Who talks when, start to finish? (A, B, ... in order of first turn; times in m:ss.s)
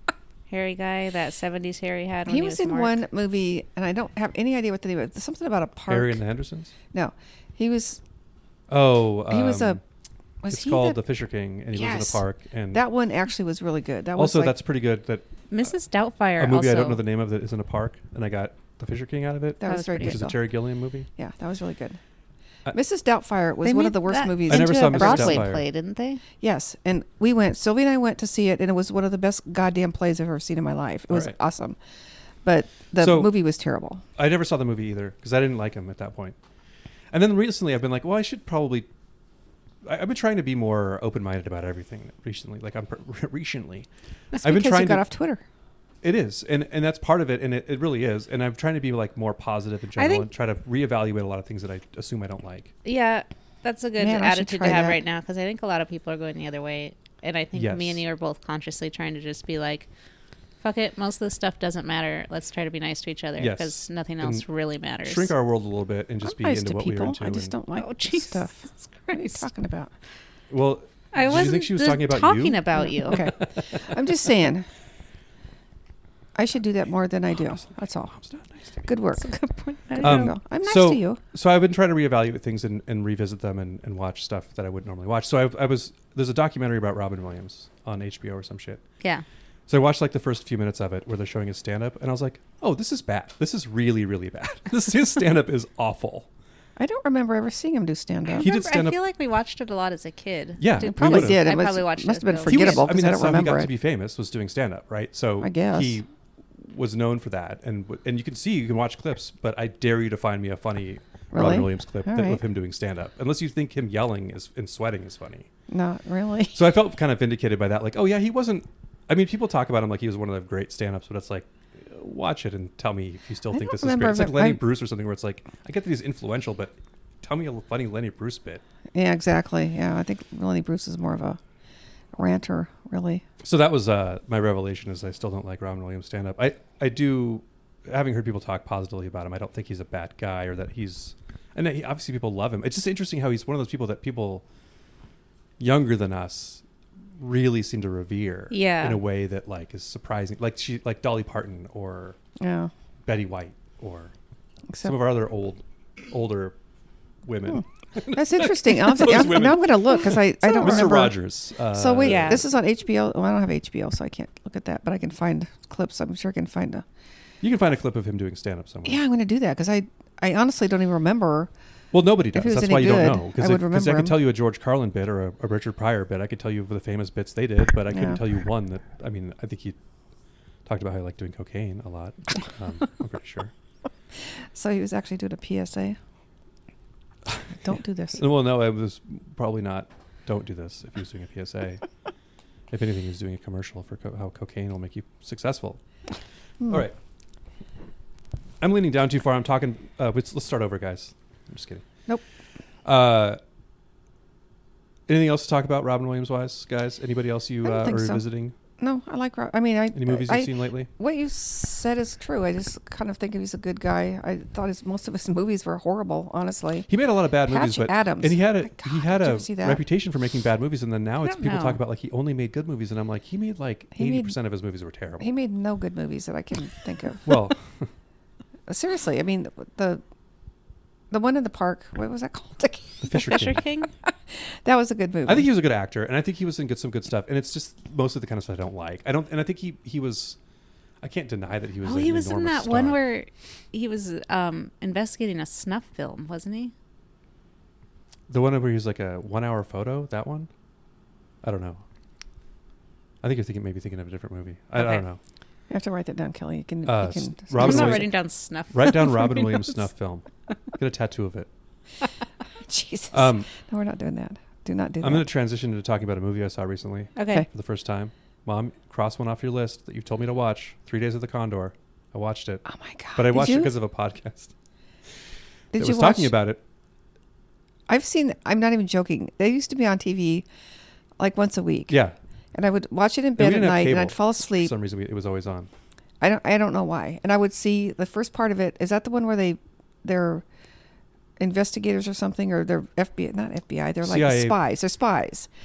0:00.5-0:03.0 A
0:02.3-0:06.2 B
0:05.9-0:06.7 C
0:06.9-0:08.0 B
0:08.7-0:09.8 C
0:09.3-0:09.8 B
0:10.4-0:11.0 B
0:10.5-0:12.8 C
0:11.8-0:12.1 A
0:12.7-0:14.6 B
0:14.2-0:15.3 C
0:15.5-0:17.0 A
0:16.4-0:21.1 C
0:19.6-0:20.4 B
0:19.6-0:20.2 A
0:21.2-0:22.0 B
0:22.7-0:25.5 B
0:23.6-0:26.2 A
0:24.5-0:25.6 C
0:26.4-0:31.8 B
0:31.1-0:31.3 C
0:32.4-0:34.0 B
0:33.0-0:33.4 C
0:34.2-0:36.4 C
0:37.1-0:38.9 C
0:39.8-0:45.0 C
0:44.4-0:45.4 B
0:46.0-0:52.7 C
0:50.0-0:50.3 A
0:52.8-0:59.9 A
0:54.0-0:55.0 B
0:57.5-0:58.0 C
1:00.6-1:05.3 A
1:03.4-1:04.4 C
1:05.0-1:07.5 C
1:06.2-1:09.9 B
1:07.7-1:09.5 A
1:10.5-1:13.8 C
1:11.1-1:13.3 A
1:12.8-1:14.7 B
1:16.4-1:18.1 B
1:17.3-1:18.9 C
1:18.8-1:19.3 B
1:19.2-1:20.4 A
1:19.9-1:21.2 B
1:20.0-1:28.8 C
1:29.7-1:36.3 C
1:36.8-1:38.5 B
1:38.3-1:42.8 A
1:38.4-1:39.0 C
1:40.6-1:41.6 C
1:40.8-1:43.7 B
1:42.4-1:55.5 C
1:45.4-1:46.0 B
1:51.3-1:52.4 B
1:55.7-1:56.7 B
1:56.5-2:08.6 C
2:03.5-2:04.6 B
2:08.9-2:11.4 B
2:12.1-2:13.2 B
2:13.4-2:24.4 C
2:25.6-2:26.6 C
2:27.2-2:32.2 C
2:28.5-2:29.0 A
2:32.4-2:32.7 B
2:33.0-2:34.1 C
2:34.7-2:35.0 B
2:34.8-2:36.6 C
2:37.2-2:42.5 C
2:38.1-2:46.8 B
2:42.0-2:42.4 A
2:47.4-2:49.0 C
2:48.8-2:51.5 B
2:51.9-2:59.8 C
2:52.3-2:54.2 B
2:57.9-2:58.2 B
3:00.6-3:03.5 C
3:04.3-3:06.0 B
3:07.6-3:08.2 B
3:08.2-3:11.8 C
3:12.7-3:15.8 C
3:16.6-3:16.9 C
3:18.6-3:21.8 C
3:22.8-3:23.4 C
3:25.1-3:28.5 C
3:27.6-3:28.2 B
3:28.8-3:36.9 B
3:29.9-3:30.9 C
3:36.9-3:45.3 C
3:37.4-3:39.8 B
3:41.2-3:41.8 A
3:43.9-3:44.4 B
3:45.2-3:47.4 B
3:47.2-3:47.9 C
3:48.7-3:50.0 B
3:51.1-3:53.3 B
3:53.0-3:53.6 C
3:53.1-3:53.9 A
3:54.1-3:55.5 B
3:55.2-4:00.4 C
4:01.0-4:03.0 C
4:01.8-4:06.7 A
4:08.3-4:10.5 C
4:11.4-4:11.8 C
4:13.2-4:15.2 C
4:14.8-4:15.0 A
4:15.7-4:18.0 B
4:16.8-4:18.2 C
4:17.6-4:19.8 A
4:18.7-4:21.5 C
4:22.7-4:25.3 B
4:23.1-4:23.5 C
4:25.0-4:32.6 C
4:27.2-4:27.4 A
4:32.6-4:33.7 B
4:33.2-4:34.5 C
4:35.7-4:36.3 B
4:35.8-4:36.6 C
4:37.9-4:40.4 B
4:41.2-4:42.0 B
4:41.9-4:42.1 C
4:42.5-4:44.7 B
4:43.4-4:45.7 C
4:46.2-4:50.4 B
4:51.4-4:55.5 B
4:54.0-4:54.6 C